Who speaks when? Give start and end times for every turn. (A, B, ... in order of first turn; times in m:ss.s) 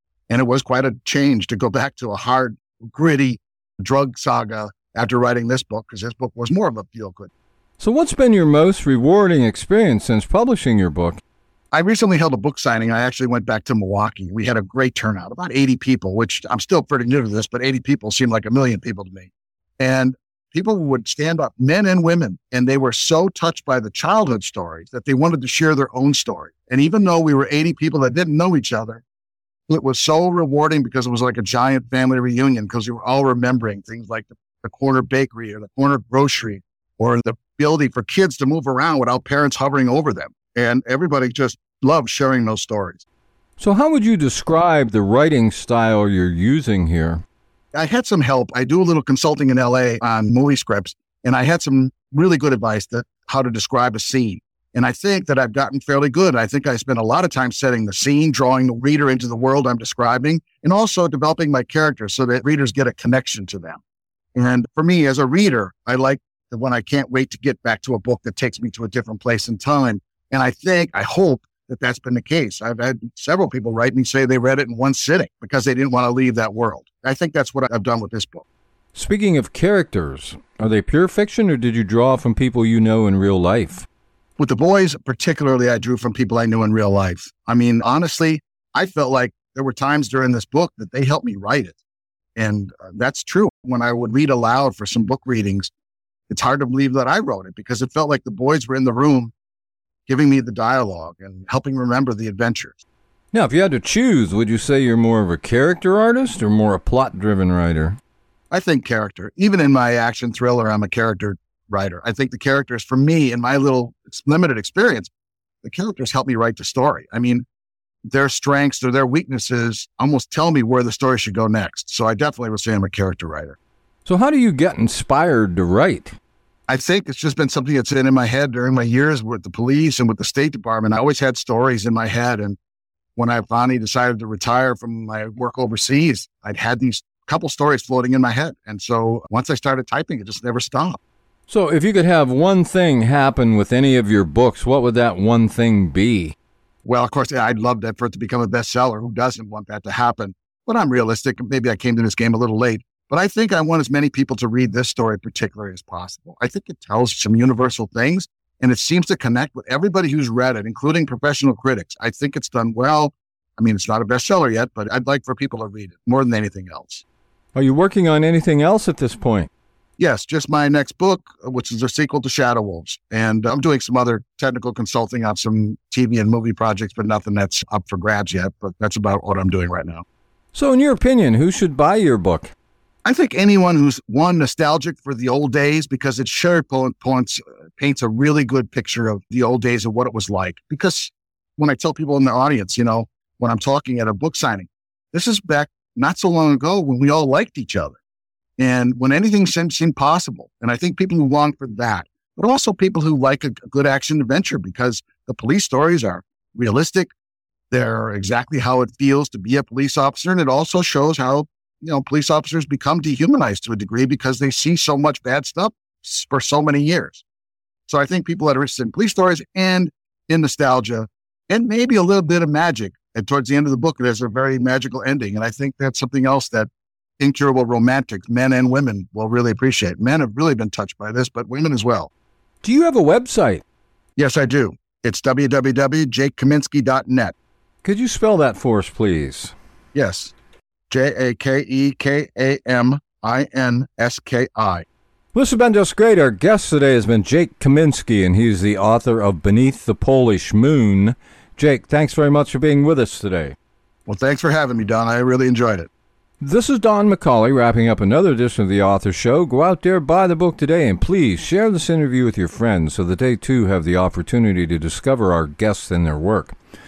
0:00.3-0:07.3 A
0:07.8-0:11.2 B
0:11.7-0:29.0 A
0:29.7-0:43.0 A
0:43.6-0:47.2 B
0:47.7-1:03.8 A
1:04.3-1:18.4 A
1:18.9-1:23.9 B
1:24.4-1:31.8 A
1:32.4-1:35.7 A
1:36.3-1:39.3 A
1:40.1-1:42.8 A
1:43.3-1:48.0 B
1:48.5-1:55.1 A
1:55.6-1:57.4 A
1:58.0-2:03.6 A
2:04.0-2:06.2 B
2:06.7-2:12.6 A
2:13.2-2:21.0 A
2:21.5-2:26.3 B
2:26.8-2:47.0 A
2:47.5-2:49.5 B
2:50.0-3:00.0 A
3:00.5-3:02.5 B
3:03.0-3:18.0 A
3:18.6-3:27.1 A
3:27.7-3:37.2 A
3:37.9-3:52.1 A
3:52.6-3:53.6 B
3:54.2-3:57.3 A
3:57.8-3:59.5 B
3:59.9-4:00.3 A
4:00.9-4:04.8 A
4:05.3-4:13.6 B
4:14.0-4:15.9 A
4:16.4-4:26.6 B